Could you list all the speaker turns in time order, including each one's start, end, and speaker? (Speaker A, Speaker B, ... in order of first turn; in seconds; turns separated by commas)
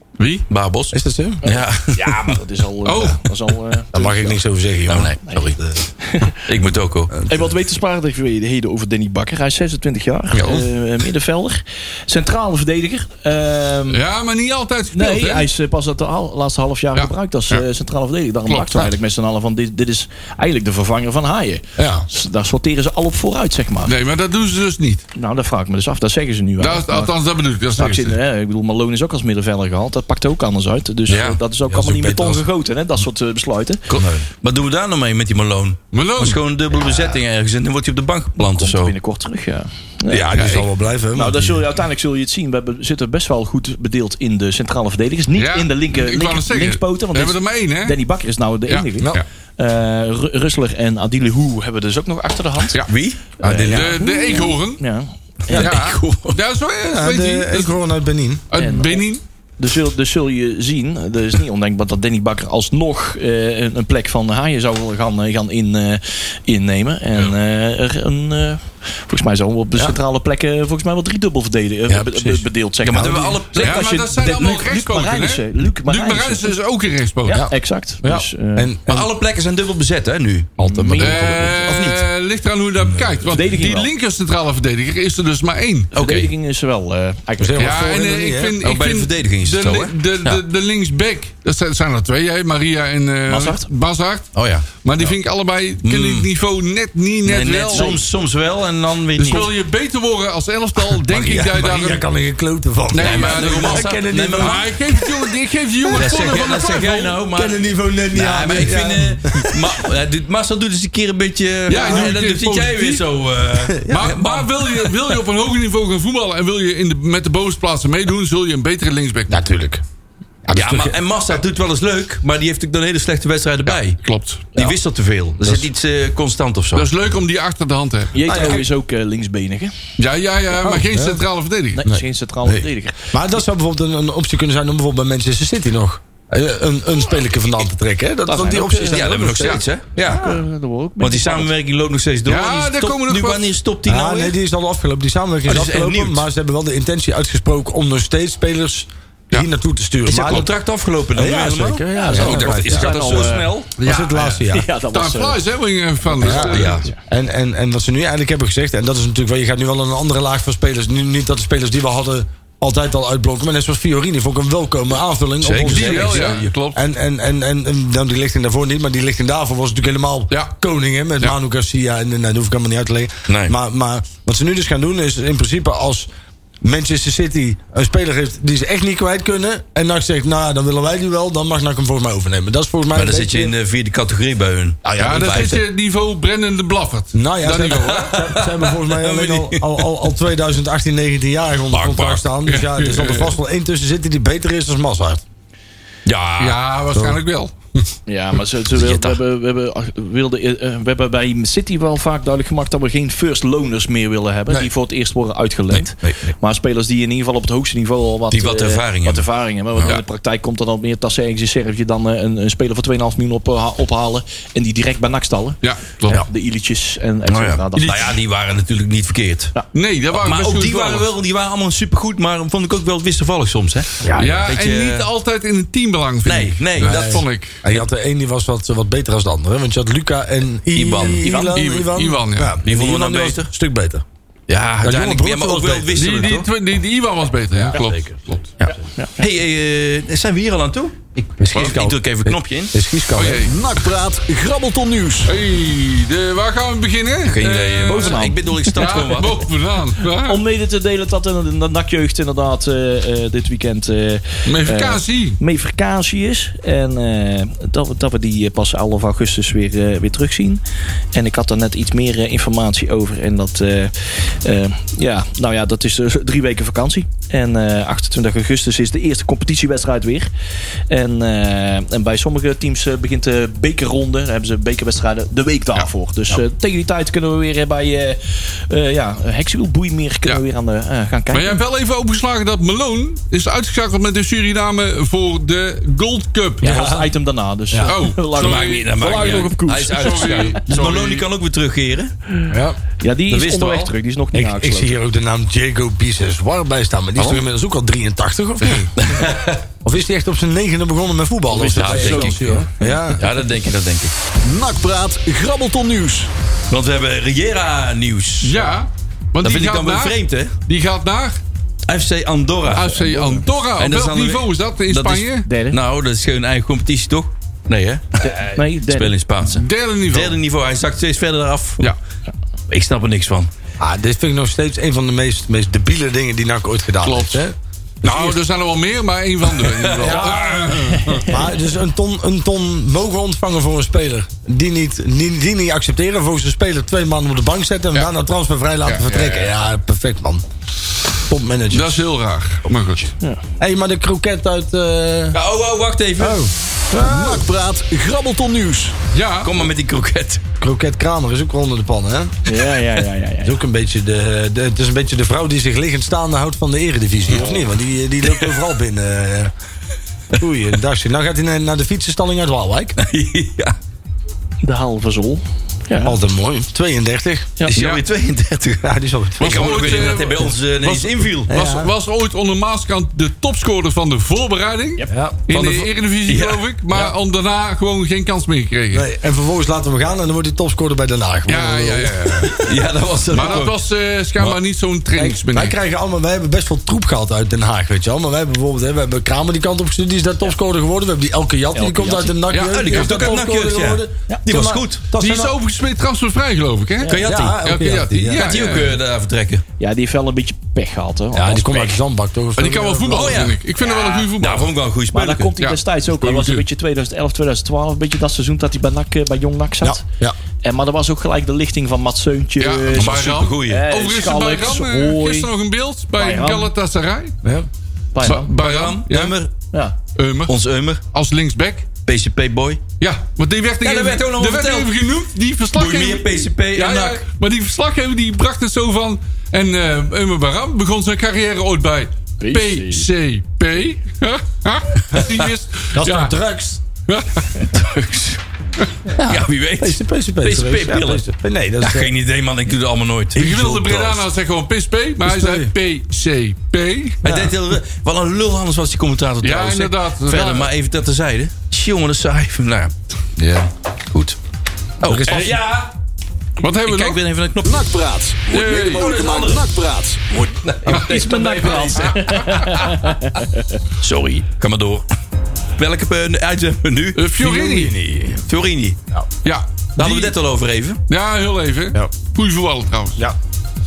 Speaker A: 0.2-0.5, Speaker B: 0.5-2.4, Speaker C: 0.9-1.4, Speaker D: 1.4-4.4, Speaker A: 2.9-3.2, Speaker C: 3.9-5.8, Speaker B: 4.9-5.6, Speaker D: 6.0-6.4, Speaker B: 6.5-7.1, Speaker C: 7.2-7.4, Speaker D: 7.3-14.0, Speaker A: 13.9-15.5, Speaker D: 14.9-23.9, Speaker A: 17.0-17.6, Speaker A: 18.5-18.8, Speaker C: 21.8-22.1, Speaker A: 23.9-25.0, Speaker D: 25.2-27.1, Speaker A: 26.6-28.2, Speaker D: 27.7-33.9, Speaker B: 31.1-31.4, Speaker C: 31.7-32.4, Speaker B: 33.9-39.0, Speaker A: 35.9-36.4, Speaker D: 38.4-40.4, Speaker C: 40.1-41.7, Speaker A: 40.4-40.7, Speaker D: 41.1-52.8, Speaker A: 45.3-48.0, Speaker A: 48.7-49.2, Speaker B: 52.9-53.7, Speaker D: 53.4-55.1, Speaker C: 53.4-54.0, Speaker A: 53.5-54.8, Speaker C: 55.5-55.7, Speaker B: 55.5-56.4, Speaker A: 55.5-57.7, Speaker C: 56.9-58.4, Speaker A: 58.5-59.2, Speaker D: 58.5-59.1, Speaker D: 59.6-76.5, Speaker C: 72.0-72.4, Speaker B: 72.8-74.6, Speaker C: 72.9-73.3, Speaker A: 73.6-77.4, Speaker D: 77.3-78.7, Speaker C: 77.3-79.1, Speaker B: 78.9-82.0, Speaker D: 80.6-81.5, Speaker A: 81.0-85.9, Speaker B: 82.8-83.2, Speaker D: 83.3-83.9, Speaker D: 85.9-87.8, Speaker B: 86.0-86.3, Speaker C: 87.4-88.6, Speaker A: 87.6-98.0, Speaker B: 88.6-90.4, Speaker D: 93.3-93.7, Speaker B: 94.3-95.2, Speaker B: 95.8-96.3, Speaker B: 97.2-99.5, Speaker D: 97.7-98.0, Speaker A: 99.2-102.0, Speaker C: 100.9-104.9, Speaker A: 102.9-107.2, Speaker B: 102.9-104.7, Speaker B: 105.9-114.9, Speaker C: 107.3-109.7, Speaker A: 111.7-113.0, Speaker C: 111.7-112.1, Speaker C: 113.6-114.2, Speaker A: 113.9-119.4, Speaker C: 119.3-119.8, Speaker C: 120.5-121.0, Speaker B: 120.5-124.0, Speaker A: 123.7-124.5, Speaker B: 124.5-126.9, Speaker C: 125.4-125.7, Speaker A: 126.8-128.2, Speaker D: 128.1-129.7, Speaker C: 128.2-128.7, Speaker A: 130.0-131.8, Speaker C: 130.6-131.2, Speaker D: 131.8-133.1, Speaker C: 131.8-139.6, Speaker D: 138.3-139.1, Speaker B: 138.9-140.4, Speaker D: 140.0-141.5, Speaker B: 141.0-144.3, Speaker A: 142.3-143.5, Speaker C: 143.8-150.5, Speaker B: 145.5-146.2, Speaker B: 150.1-153.7, Speaker C: 151.1-154.7, Speaker D: 151.9-153.7, Speaker A: 153.8-156.8, Speaker D: 154.5-155.4, Speaker C: 156.2-176.1, Speaker B: 156.3-156.9, Speaker B: 165.4-166.5, Speaker A: 165.6-166.8, Speaker B: 173.3-173.6, Speaker C: 176.6-183.5, Speaker B: 182.9-185.6, Speaker C: 184.9-185.6, Speaker A: 185.0-188.2, Speaker C: 187.1-195.2, Speaker B: 187.7-189.9, Speaker B: 191.7-192.3, Speaker A: 192.5-193.4, Speaker B: 196.1-196.6, Speaker A: 196.4-197.9, Speaker C: 196.9-197.2, Speaker D: 198.1-215.6, Speaker B: 198.7-199.2, Speaker B: 205.7-206.3, Speaker B: 208.3-210.0, Speaker A: 215.6-216.2, Speaker D: 216.1-218.2, Speaker B: 217.3-219.5, Speaker A: 217.8-218.1, Speaker A: 219.7-221.1, Speaker B: 220.1-225.1, Speaker C: 224.0-224.4, Speaker A: 224.2-227.6, Speaker B: 226.2-227.3, Speaker C: 226.8-234.0, Speaker B: 230.7-231.6, Speaker A: 231.5-232.6, Speaker B: 232.6-233.5, Speaker B: 234.5-236.5, Speaker C: 234.8-236.2, Speaker A: 235.9-238.5, Speaker B: 238.6-242.8, Speaker C: 241.4-243.5, Speaker A: 243.1-243.5, Speaker E: 243.4-245.3, Speaker A: 245.3-250.4, Speaker B: 247.2-249.4, Speaker D: 247.9-249.1, Speaker D: 250.2-260.6, Speaker A: 254.5-255.4, Speaker D: 261.1-270.3, Speaker D: 270.9-281.6, Speaker A: 281.3-286.8, Speaker D: 286.6-290.6, Speaker C: 286.6-287.1, Speaker A: 287.9-291.2, Speaker B: 288.4-292.1, Speaker C: 292.5-292.8, Speaker D: 293.0-295.0, Speaker B: 293.3-293.9, Speaker C: 294.3-299.0, Speaker B: 297.2-297.4, Speaker A: 298.6-298.9, Speaker B: 299.0-299.6, Speaker C: 299.8-303.3, Speaker D: 301.5-303.1, Speaker B: 301.6-304.1, Speaker E: 304.4-306.3, Speaker B: 306.7-308.7, Speaker A: 308.4-311.4, Speaker B: 309.4-310.5, Speaker B: 311.9-313.2, Speaker A: 312.7-315.5, Speaker B: 313.8-321.9, Speaker D: 315.4-315.8, Speaker D: 318.2-319.2, Speaker A: 319.5-320.4, Speaker B: 322.7-323.5, Speaker C: 323.8-328.4, Speaker A: 327.0-327.4, Speaker A: 328.0-331.4, Speaker B: 329.5-330.3, Speaker C: 330.0-340.4, Speaker D: 330.9-331.3, Speaker A: 338.9-339.5, Speaker C: 341.3-342.0, Speaker A: 341.7-343.1, Speaker C: 343.6-345.4, Speaker B: 345.3-346.4, Speaker C: 346.2-347.5, Speaker E: 346.9-349.0, Speaker A: 349.1-349.7, Speaker B: 349.4-350.4, Speaker C: 350.6-352.6, Speaker D: 352.5-353.6, Speaker C: 353.4-359.5, Speaker C: 360.3-363.0, Speaker B: 363.0-363.8, Speaker D: 364.6-366.2, Speaker C: 366.0-367.6, Speaker B: 367.7-371.5, Speaker A: 367.7-368.0, Speaker C: 368.8-370.3, Speaker A: 369.4-379.1, Speaker C: 371.5-371.9, Speaker C: 375.1-375.5, Speaker B: 375.5-377.1, Speaker C: 378.9-382.6, Speaker A: 381.5-382.6, Speaker B: 382.6-383.8, Speaker A: 383.3-385.8, Speaker C: 383.3-383.6, Speaker C: 385.2-395.6, Speaker D: 391.7-392.4, Speaker A: 392.5-393.1, Speaker B: 392.6-395.0, Speaker A: 395.2-399.0, Speaker D: 397.0-397.4, Speaker B: 397.1-397.6, Speaker C: 397.2-398.5, Speaker B: 398.3-399.6, Speaker D: 399.8-402.0, Speaker C: 401.3-403.5, Speaker A: 402.6-404.7, Speaker B: 403.1-405.5, Speaker D: 405.1-410.0, Speaker A: 405.6-406.7, Speaker C: 409.8-410.4, Speaker D: 410.6-415.5, Speaker A: 412.6-417.4, Speaker B: 412.9-413.9, Speaker D: 416.2-416.7, Speaker D: 418.1-418.5, Speaker A: 418.2-419.4, Speaker B: 418.2-419.5, Speaker A: 420.2-420.6, Speaker B: 420.5-421.0, Speaker A: 421.1-421.9, Speaker B: 422.1-422.8, Speaker A: 423.0-436.3, Speaker B: 423.8-424.9, Speaker B: 425.8-427.2, Speaker D: 432.4-433.1, Speaker C: 435.9-436.8, Speaker A: 437.1-437.6, Speaker B: 437.6-438.4, Speaker C: 439.1-442.1, Speaker B: 439.2-441.2, Speaker B: 441.8-443.4, Speaker C: 443.4-444.2, Speaker A: 443.4-447.2, Speaker C: 445.2-445.7, Speaker C: 447.2-447.5, Speaker B: 447.2-452.9, Speaker A: 449.4-450.7, Speaker C: 453.4-453.7, Speaker B: 454.1-454.4, Speaker B: 455.0-455.9, Speaker C: 455.0-455.6, Speaker A: 456.6-457.2, Speaker B: 456.8-457.9, Speaker E: 457.6-460.4, Speaker A: 458.5-459.1, Speaker B: 458.5-459.7, Speaker C: 459.0-459.6, Speaker B: 460.4-463.1, Speaker D: 460.9-463.7, Speaker A: 462.0-462.5, Speaker B: 464.0-465.1, Speaker B: 465.8-467.2, Speaker A: 467.1-467.9, Speaker C: 467.4-468.4, Speaker B: 468.4-469.0, Speaker A: 469.4-470.4, Speaker B: 470.0-471.0, Speaker A: 471.1-473.2